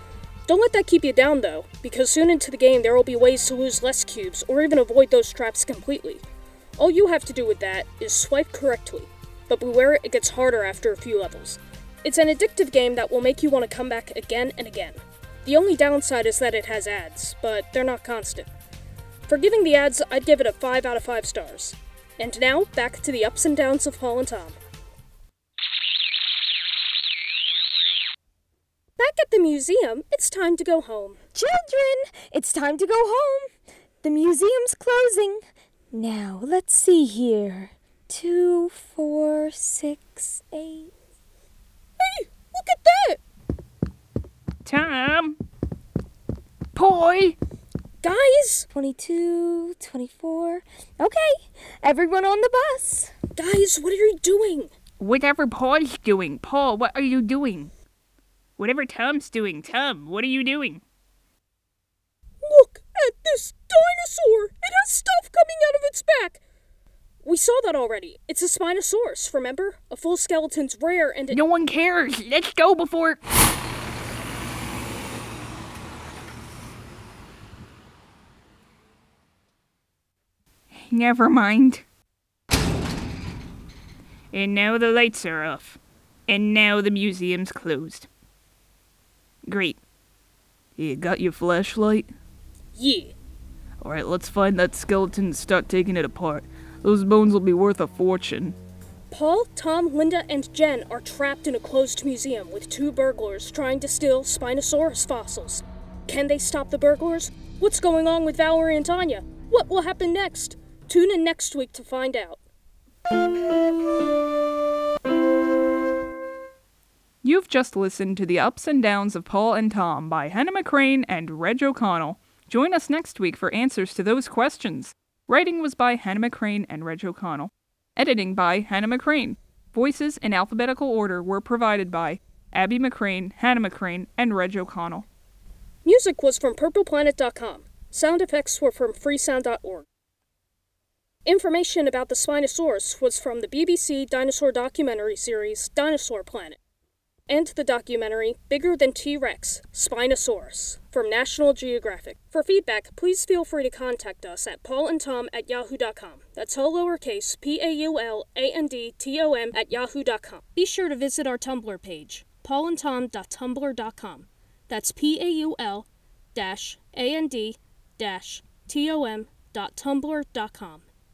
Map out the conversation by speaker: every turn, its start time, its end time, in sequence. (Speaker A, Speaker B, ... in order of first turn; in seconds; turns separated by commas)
Speaker A: 0.5-6.2, Speaker A: 6.8-18.5, Speaker A: 19.3-24.6, Speaker A: 29.0-31.2, Speaker B: 31.3-33.5, Speaker B: 34.0-40.9, Speaker A: 42.0-43.2, Speaker C: 44.6-45.4, Speaker C: 46.7-47.4, Speaker A: 48.0-48.7, Speaker B: 48.7-53.1, Speaker A: 53.4-54.7, Speaker C: 55.0-57.7, Speaker C: 58.6-60.8, Speaker A: 62.4-66.4, Speaker A: 67.2-71.4, Speaker C: 71.3-73.2, Speaker C: 80.7-81.8, Speaker C: 84.3-88.1, Speaker C: 89.5-89.8, Speaker C: 90.8-92.1, Speaker A: 92.8-93.1, Speaker C: 93.8-98.5, Speaker A: 99.1-112.4, Speaker C: 117.2-135.1, Speaker A: 135.8-139.8, Speaker A: 141.2-146.6, Speaker A: 147.3-170.8